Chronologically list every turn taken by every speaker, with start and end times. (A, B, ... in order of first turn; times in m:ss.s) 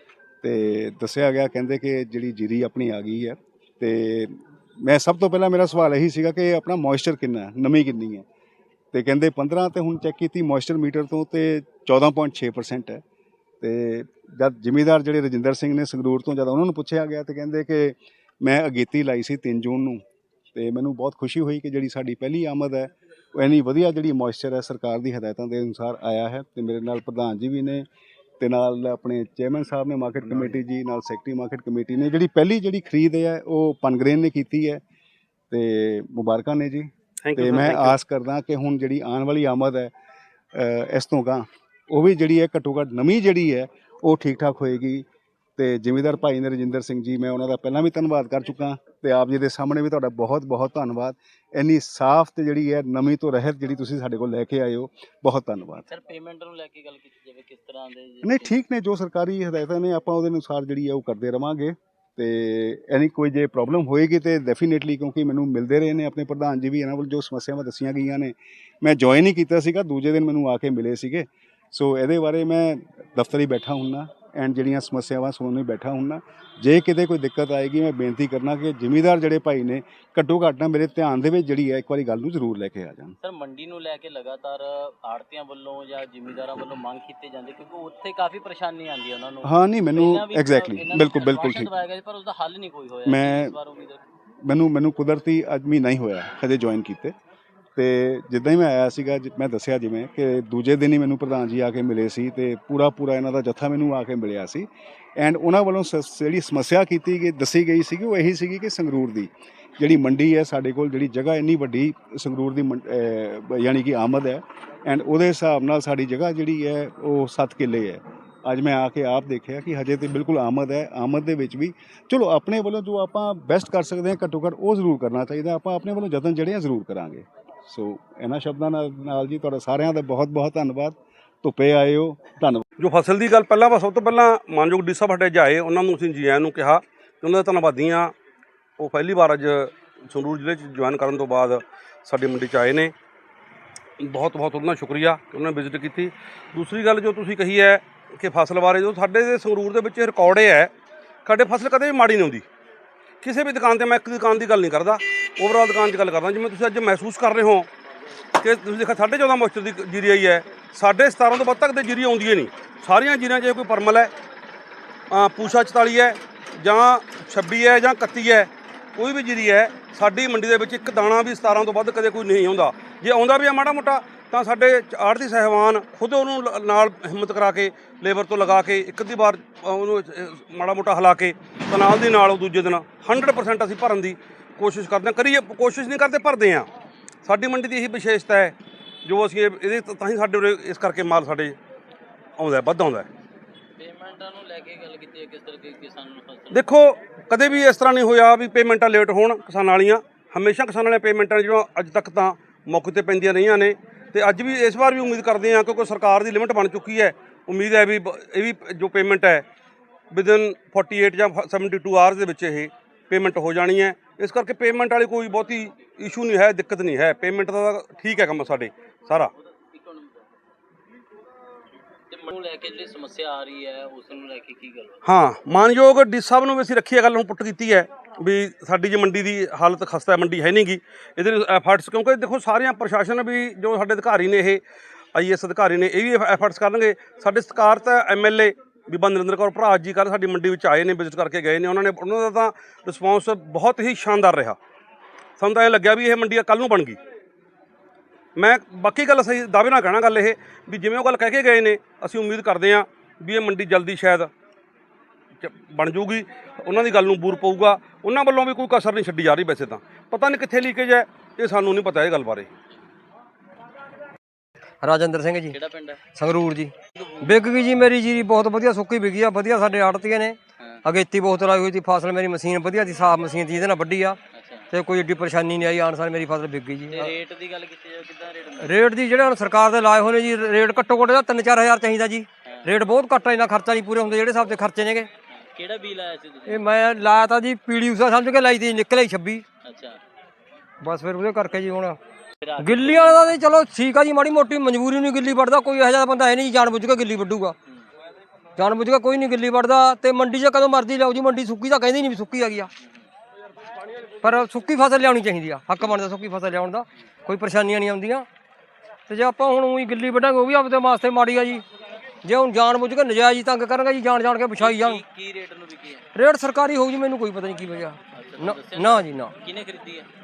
0:00.4-0:08.2 A
0:08.9-0:13.0 A
0:13.6-0:20.0 A
0:20.5-0:27.8 A
0:28.4-0:34.8 A
0:35.5-0:39.9 A
0:37.2-0:38.0 B
0:40.5-0:45.0 A
0:45.6-0:55.8 A
0:55.9-0:58.6 C
0:58.2-1:23.1 A
1:23.2-1:34.0 C
1:29.4-1:31.7 A
1:33.0-1:33.5 A
1:34.4-1:37.2 A
1:37.7-2:12.6 A
2:12.8-2:18.1 B
2:18.8-2:22.9 B
2:24.0-2:30.7 B
2:31.2-2:32.4 B
2:33.2-2:37.7 B
2:38.4-2:44.1 B
2:45.1-3:06.7 B
3:07.2-3:11.6 B
3:12.4-3:13.1 B
3:13.8-3:16.6 C
3:16.5-3:29.4 B
3:30.1-3:39.3 B
3:39.7-3:40.3 C
3:42.1-3:45.0 C
3:45.0-3:54.6 B
3:55.1-4:04.6 B
4:05.4-4:07.0 B
4:08.4-4:14.3 B
4:15.4-4:22.5 B
4:24.8-4:25.6 D
4:25.5-4:26.0 C
4:26.1-4:34.2 D
4:34.3-4:34.7 C
4:34.7-4:37.1 D
4:36.9-4:38.8 C
4:38.6-4:45.1 D
4:45.3-4:46.7 C
4:46.5-4:49.4 D
4:49.6-4:50.0 C
4:50.8-4:52.0 D
4:52.4-4:53.3 C
4:52.6-4:57.6 D
4:58.6-5:02.7 D
5:02.8-5:03.1 C
5:04.2-5:08.2 D
5:09.1-5:11.6 D
5:12.2-5:15.0 D
5:14.6-5:16.0 C
5:16.1-5:19.3 D
5:18.1-5:20.1 C